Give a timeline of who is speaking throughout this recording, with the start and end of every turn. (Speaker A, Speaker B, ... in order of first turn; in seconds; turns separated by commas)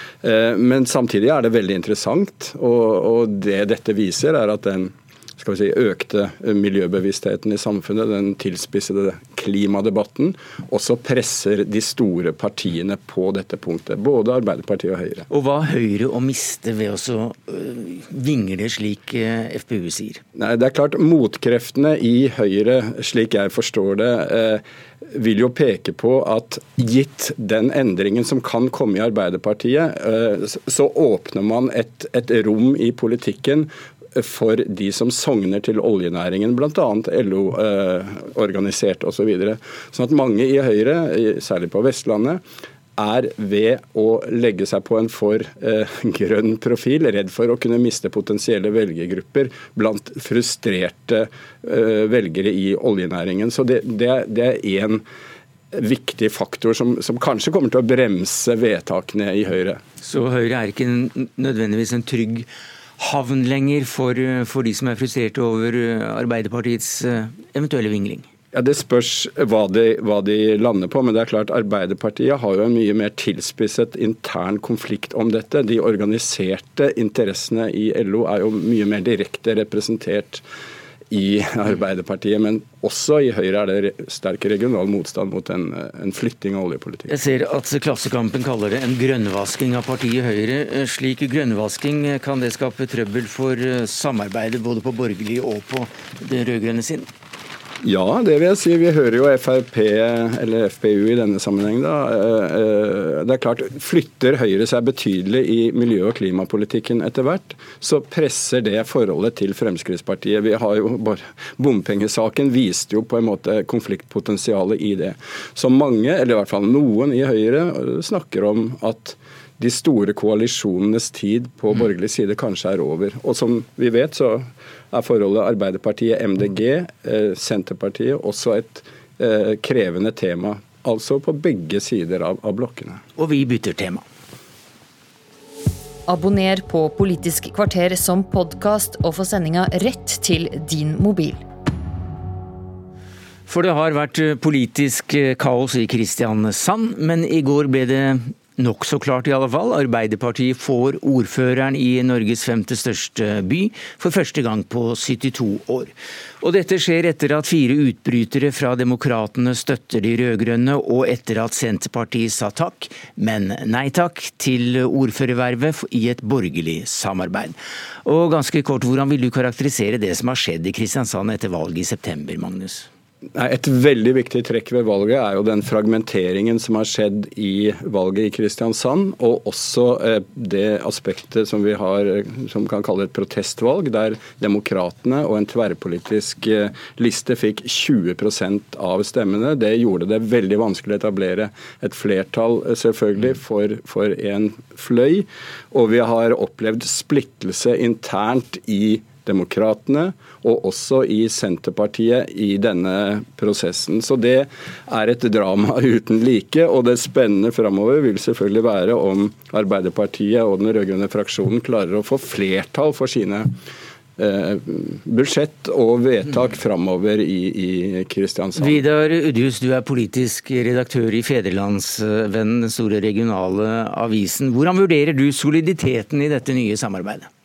Speaker A: 0.2-15.2, Speaker B: 15.3-20.2, Speaker A: 20.4-42.4, Speaker A: 43.0-55.0, Speaker A: 55.7-59.8, Speaker B: 60.0-68.3, Speaker A: 68.5-80.4, Speaker A: 81.1-87.1, Speaker B: 87.1-97.1, Speaker A: 97.8-133.0, Speaker B: 133.2-134.0, Speaker C: 136.1-141.4, Speaker B: 143.5-172.9, Speaker A: 173.3-213.5, Speaker A: 214.2-218.8, Speaker B: 218.6-227.3